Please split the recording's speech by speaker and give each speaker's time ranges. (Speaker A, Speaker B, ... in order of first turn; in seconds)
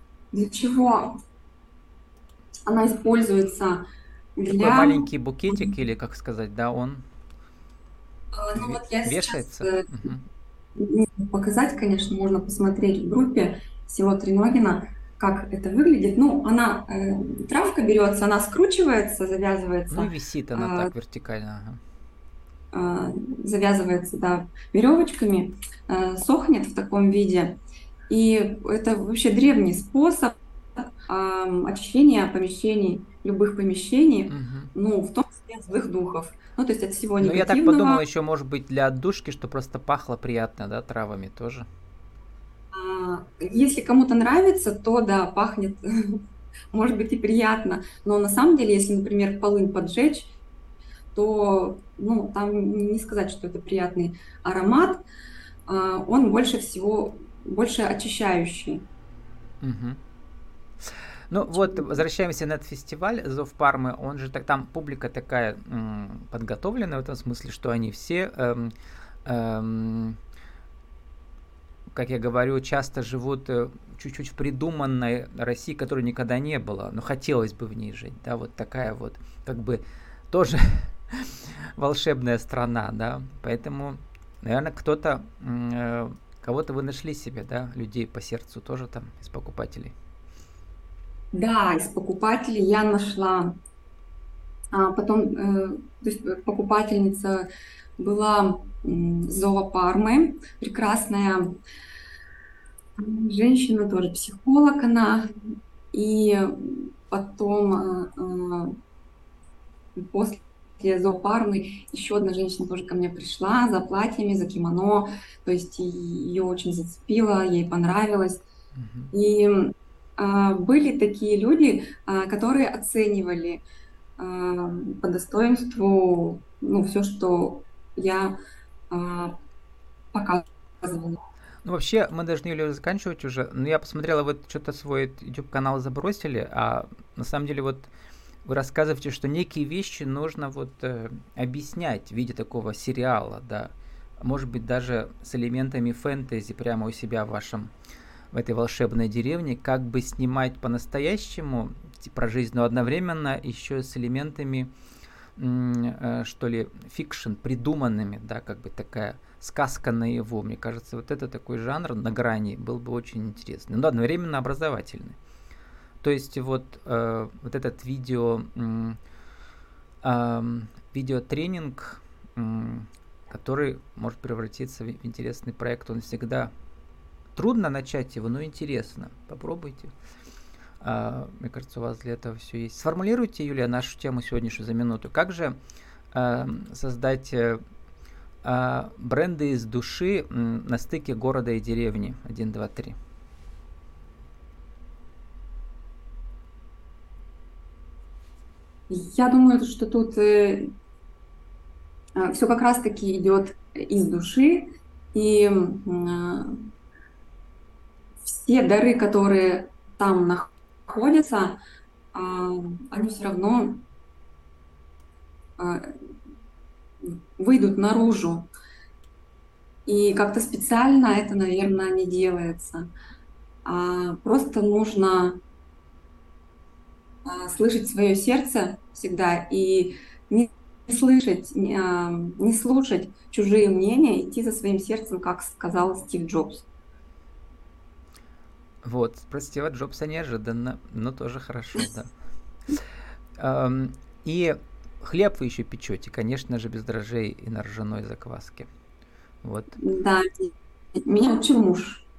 Speaker A: 0.3-1.2, 2.6-3.8, 4.4-5.7, 8.3-9.9, 10.8-20.9, 22.7-27.6, 28.1-38.0, 42.7-50.4, 51.1-55.0, 55.7-58.8, 61.5-62.0, 91.3-93.5, 94.7-101.5, 103.0-105.3, 105.9-108.8, 110.0-118.4, 119.1-123.6, 124.2-128.4, 128.9-129.3, 130.1-131.2, 198.9-200.7, 202.2-206.7, 208.2-211.6, 212.1-213.8, 215.6-216.0, 217.0-218.5, 219.8-222.9, 223.6-225.4, 227.2-236.6, 249.8-252.1
Speaker B: 4.5-7.0, 8.5-10.2, 19.9-21.8, 34.3-34.7, 37.2-41.7, 59.6-60.0, 61.3-68.7, 69.2-70.2, 71.9-89.9, 118.7-119.1, 131.6-137.9, 138.4-147.7, 148.3-154.7, 155.4-165.2, 166.0-169.0, 170.0-176.5, 177.3-179.9, 180.8-185.6, 186.1-187.6, 188.4-192.9, 238.8-242.1, 243.4-248.7, 249.4-249.8